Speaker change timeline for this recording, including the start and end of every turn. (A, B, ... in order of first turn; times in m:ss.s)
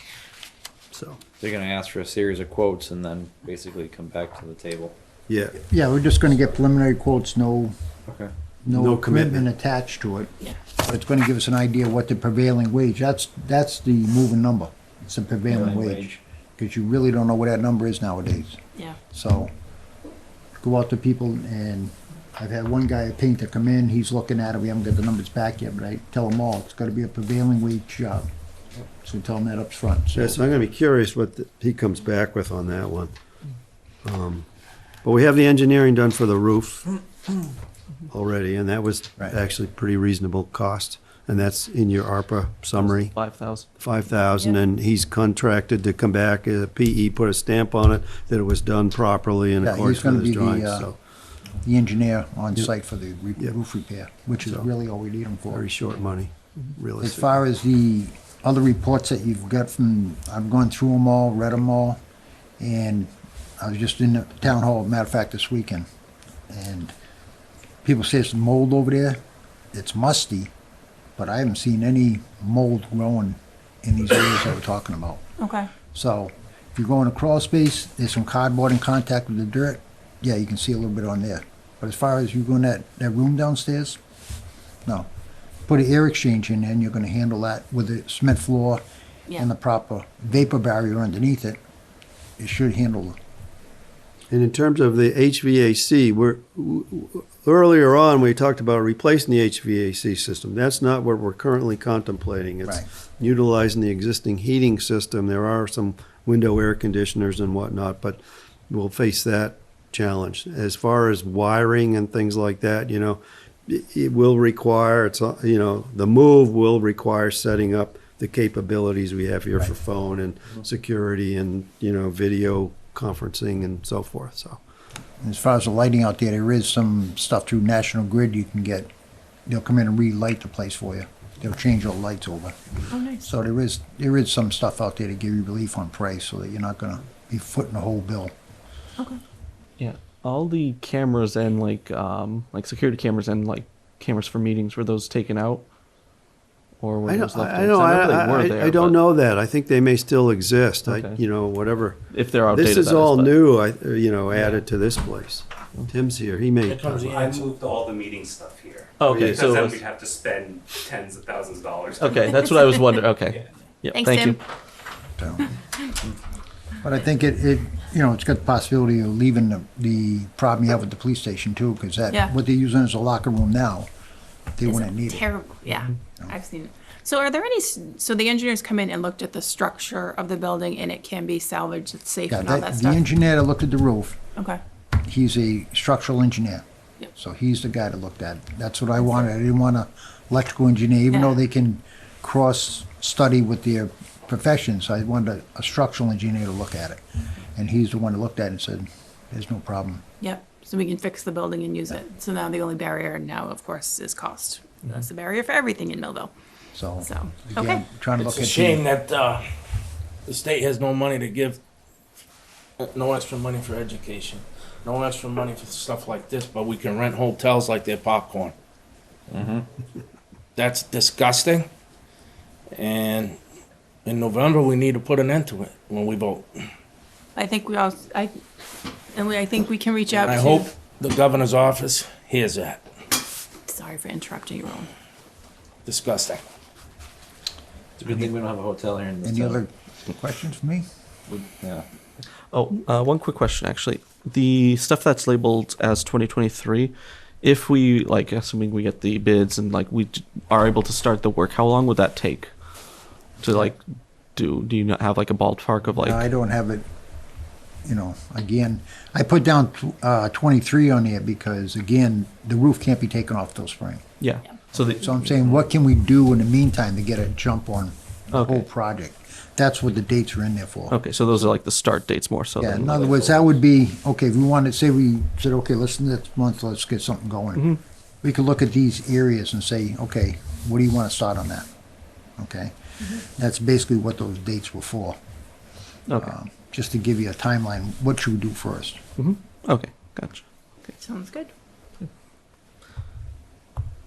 0:00.9-0:01.2 A
0:01.4-0:05.0 B
0:05.3-0:05.6 A
0:05.7-0:07.7 C
0:08.1-0:08.3 B
0:08.6-0:18.6 C
0:08.7-0:09.5 A
0:15.5-0:16.1 B
0:19.1-0:19.5 C
0:20.6-0:28.3 C
0:29.0-0:30.4 C
0:30.1-0:33.2 A
0:34.0-0:34.5 A
0:35.0-0:36.9 A
0:38.1-0:43.2 A
0:42.8-0:43.7 D
0:43.8-0:51.0 A
0:49.6-0:50.9 C
0:51.6-0:55.6 C
0:55.5-0:57.4 A
0:57.0-1:02.0 C
1:02.6-1:05.9 C
1:06.5-1:06.9 C
1:07.8-1:09.2 C
1:09.7-1:10.5 C
1:11.2-1:15.2 C
1:15.4-1:15.7 E
1:15.9-1:24.0 C
1:25.7-1:28.8 C
1:29.4-1:31.6 C
1:32.4-1:33.2 C
1:34.3-2:04.6 A
2:05.2-2:08.9 C
2:09.5-2:12.6 C
2:12.9-2:13.3 E
2:13.2-2:18.3 C
2:19.8-2:25.6 D
2:26.8-2:29.0 D
2:27.0-2:37.1 A
2:30.9-2:31.2 D
2:32.1-2:33.4 D
2:36.7-2:37.1 F
2:37.1-2:42.3 G
2:39.0-2:39.8 D
2:39.1-2:39.4 A
2:42.0-2:44.4 D
2:43.9-2:44.4 E
2:45.2-2:45.5 C
2:46.8-2:53.9 C
2:54.6-2:55.3 C
2:54.6-3:03.1 E
3:02.3-3:04.2 C
3:04.4-3:04.6 E
3:05.0-3:17.0 C
3:11.1-3:11.4 E
3:17.6-3:20.0 C
3:20.2-3:26.3 E
3:26.8-3:28.8 C
3:27.0-3:27.9 E
3:28.2-3:29.4 F
3:30.3-3:31.6 F
3:32.8-3:38.5 F
3:39.3-3:39.7 B
3:40.6-3:41.6 F
3:42.8-3:43.4 F
3:44.1-3:46.5 F
3:47.4-3:48.4 E
3:49.1-3:50.7 E
3:50.3-3:52.8 F
3:53.7-3:54.9 E
3:55.9-3:56.4 F
3:58.0-3:59.6 B
3:58.1-3:58.3 C
3:59.2-4:00.9 C
4:01.3-4:01.9 B
4:02.5-4:12.5 D
4:13.4-4:13.8 D
4:13.5-4:13.7 C
4:14.4-4:16.3 D
4:16.0-4:16.9 C
4:17.8-4:24.0 C
4:24.2-4:25.0 D
4:24.7-4:31.0 C
4:28.3-4:28.6 D
4:30.9-4:33.3 D
4:32.6-4:41.7 C
4:42.4-4:45.2 C
4:46.2-4:49.0 C
4:49.2-4:50.4 D
4:51.0-4:51.5 E